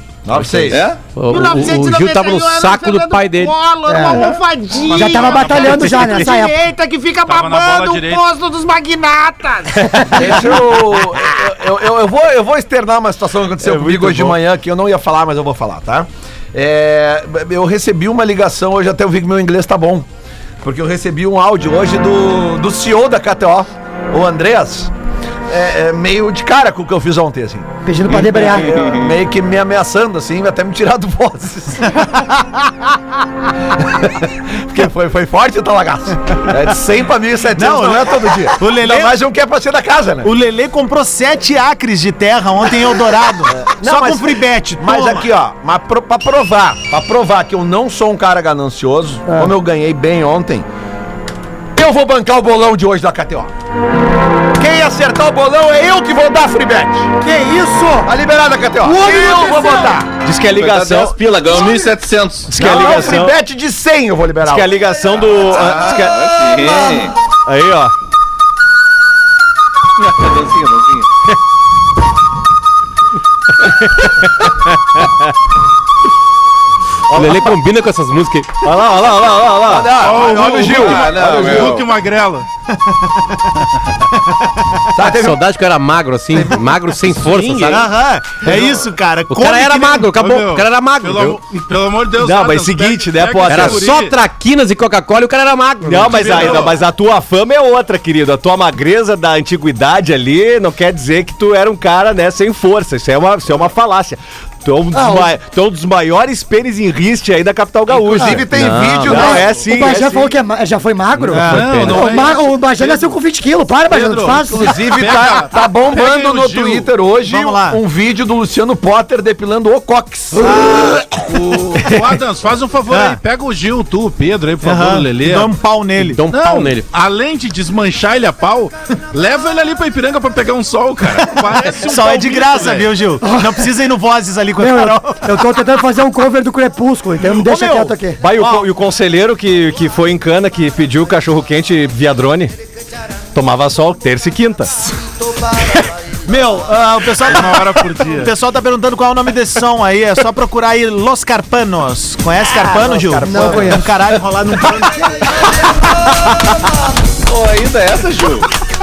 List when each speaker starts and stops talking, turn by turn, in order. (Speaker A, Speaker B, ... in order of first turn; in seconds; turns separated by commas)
Speaker A: 0.2-0.8, Speaker B: 0.7-1.0, Speaker C: 1.1-3.5, Speaker D: 1.3-10.0, Speaker E: 3.9-4.4, Speaker E: 4.9-6.6, Speaker F: 4.9-6.2, Speaker F: 7.2-8.2, Speaker E: 9.8-10.6, Speaker A: 10.1-20.1, Speaker G: 13.6-14.4, Speaker A: 20.6-24.9, Speaker A: 25.5-32.3, Speaker E: 27.9-28.8, Speaker B: 28.2-29.1, Speaker A: 33.8-40.3, Speaker H: 37.5-39.1, Speaker H: 40.2-45.3, Speaker A: 43.5-50.6, Speaker E: 49.3-49.5, Speaker A: 51.8-53.5, Speaker A: 54.5-57.1, Speaker E: 57.2-58.1, Speaker A: 58.0-60.1, Speaker E: 58.8-60.0, Speaker G: 60.2-61.2, Speaker B: 60.4-62.6, Speaker G: 62.5-63.4, Speaker A: 62.5-64.7, Speaker G: 64.4-67.9, Speaker B: 65.4-67.2, Speaker B: 70.0-71.1, Speaker G: 74.0-75.2, Speaker C: 77.1-78.7, Speaker G: 77.1-77.5, Speaker G: 78.6-80.1, Speaker A: 79.5-81.8, Speaker F: 79.9-82.5, Speaker B: 80.4-81.9, Speaker H: 82.8-83.5, Speaker A: 84.9-85.4, Speaker C: 85.0-87.9, Speaker B: 87.4-87.7, Speaker H: 87.7-90.1, Speaker C: 89.3-91.4, Speaker F: 90.1-94.2, Speaker G: 92.2-93.8, Speaker C: 93.5-96.7, Speaker G: 95.8-110.3, Speaker F: 96.0-96.8, Speaker E: 104.9-105.4, Speaker A: 107.9-109.6, Speaker E: 108.1-108.5, Speaker E: 109.0-115.0, Speaker H: 111.3-111.9, Speaker F: 111.4-113.2, Speaker C: 111.5-112.0, Speaker F: 113.9-116.9, Speaker A: 114.3-121.1, Speaker H: 117.2-117.8, Speaker F: 120.6-125.5, Speaker H: 122.9-123.2, Speaker H: 124.6-126.2, Speaker C: 126.0-126.8, Speaker F: 126.3-133.1, Speaker H: 131.8-135.4, Speaker E: 133.2-133.7, Speaker E: 134.6-138.2, Speaker H: 137.3-138.7, Speaker G: 138.2-142.5, Speaker G: 143.3-144.9, Speaker H: 146.2-155.2, Speaker F: 147.2-148.3, Speaker A: 152.5-153.8, Speaker E: 153.2-153.9, Speaker B: 157.2-158.5